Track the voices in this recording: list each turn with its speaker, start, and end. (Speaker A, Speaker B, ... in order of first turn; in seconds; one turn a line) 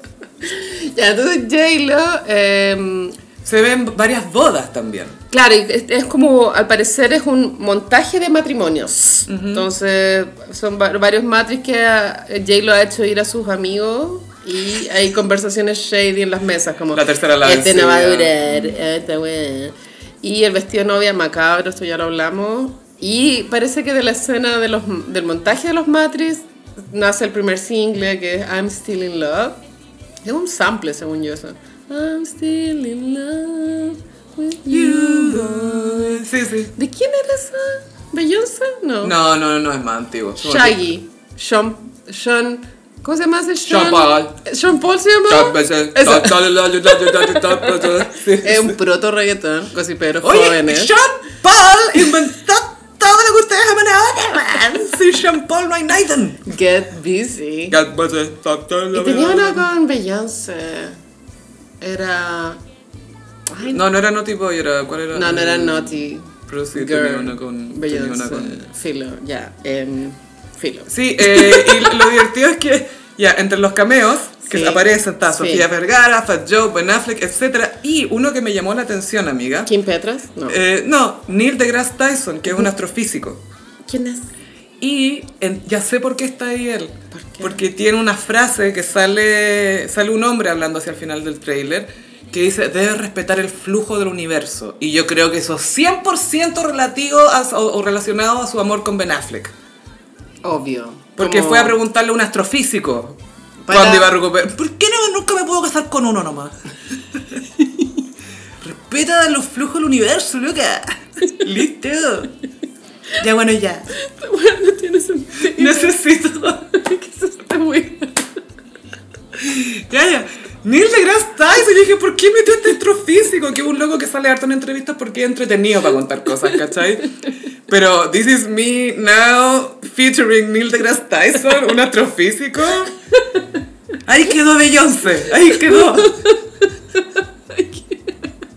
Speaker A: 0.4-3.1
Speaker B: 3.4-5.2
Speaker A: 5.3-29.6
Speaker B: 9.3-9.7
Speaker B: 16.9-18.7
Speaker A: 30.2-36.2
Speaker B: 34.7-36.7
Speaker A: 36.8-39.1
Speaker B: 39.0-40.8
Speaker A: 40.4-50.9
Speaker B: 43.6-44.4
Speaker B: 45.3-48.8
Speaker B: 50.2-56.5
Speaker A: 56.5-57.8
Speaker B: 57.7-59.7
Speaker A: 58.9-61.0
Speaker A: 61.8-62.6
Speaker A: 63.5-63.8
Speaker B: 63.6-68.6
Speaker A: 65.1-72.1
Speaker B: 70.9-79.7
Speaker A: 74.4-75.7
Speaker A: 79.7-80.6
Speaker B: 80.5-83.4
Speaker A: 83.9-84.3
Speaker B: 84.8-99.5
Speaker A: 87.1-87.6
Speaker A: 100.4-101.8
Speaker B: 101.2-103.2
Speaker A: 103.6-104.1
Speaker B: 103.7-106.6
Speaker B: 107.1-107.4
Speaker A: 107.6-107.9
Speaker B: 108.6-112.3
Speaker B: 113.2-113.9
Speaker A: 113.9-116.0
Speaker B: 115.5-116.7
Speaker A: 116.6-118.4
Speaker B: 119.4-127.1
Speaker B: 127.7-132.9
Speaker A: 133.2-133.4
Speaker B: 134.1-136.3
Speaker A: 135.4-138.3